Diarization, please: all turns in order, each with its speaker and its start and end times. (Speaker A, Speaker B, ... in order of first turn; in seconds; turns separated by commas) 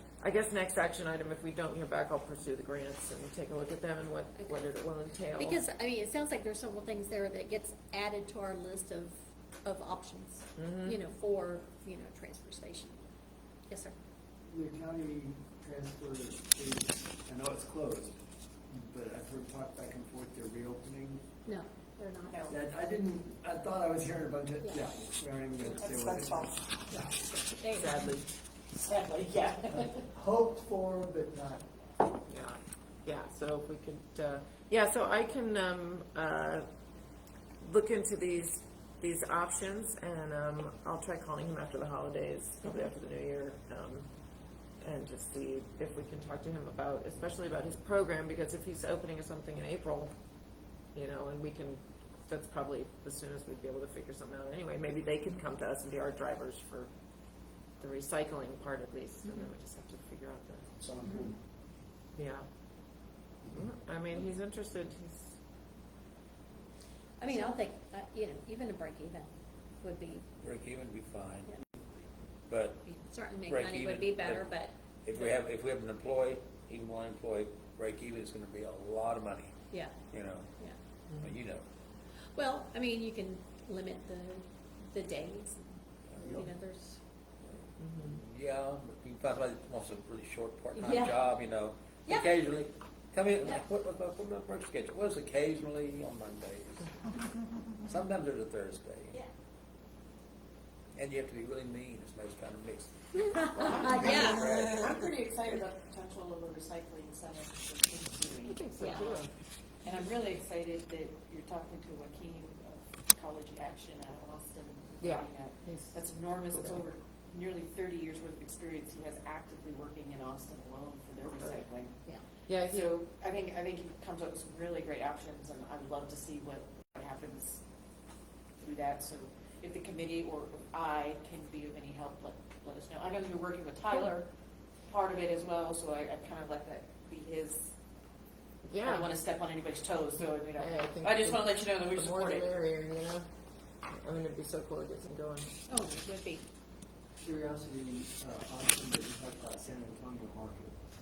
Speaker A: 0.2-5.6, Speaker B: 4.4-4.7, Speaker B: 5.3-13.1, Speaker A: 10.6-11.0, Speaker B: 13.7-14.0, Speaker C: 14.5-21.2, Speaker B: 21.5-22.4, Speaker D: 22.3-22.6, Speaker C: 22.5-26.6, Speaker B: 24.6-24.9, Speaker D: 25.6-26.6, Speaker B: 26.9-28.0, Speaker A: 27.7-28.3, Speaker D: 28.7-29.9, Speaker C: 29.9-31.7, Speaker A: 32.3-36.7, Speaker A: 37.6-44.1, Speaker A: 44.8-50.1, Speaker A: 51.0-56.9, Speaker A: 57.8-60.7, Speaker C: 60.8-61.4, Speaker A: 62.2-62.5, Speaker A: 63.5-65.4, Speaker B: 67.2-69.3, Speaker B: 69.8-70.2, Speaker E: 70.4-71.6, Speaker E: 72.5-72.8, Speaker B: 72.8-74.7, Speaker E: 73.5-74.5, Speaker E: 75.0-79.6, Speaker B: 79.7-80.0, Speaker E: 80.1-80.5, Speaker E: 81.2-81.7, Speaker B: 82.3-87.0, Speaker A: 87.8-88.2, Speaker E: 88.1-97.0, Speaker B: 90.7-91.2, Speaker B: 92.1-92.4, Speaker E: 97.8-99.2, Speaker E: 101.0-105.0, Speaker B: 103.4-104.5, Speaker A: 103.6-103.9, Speaker D: 103.7-109.2, Speaker A: 108.5-109.3, Speaker B: 108.8-109.1, Speaker D: 109.8-122.0, Speaker A: 115.0-116.0, Speaker A: 116.5-116.8, Speaker A: 122.5-123.0, Speaker D: 122.7-127.6, Speaker D: 128.6-134.3, Speaker D: 134.9-137.7, Speaker A: 138.7-139.1, Speaker D: 138.8-142.5, Speaker A: 140.6-143.3, Speaker A: 143.9-145.6, Speaker B: 145.7-146.4, Speaker C: 147.2-150.8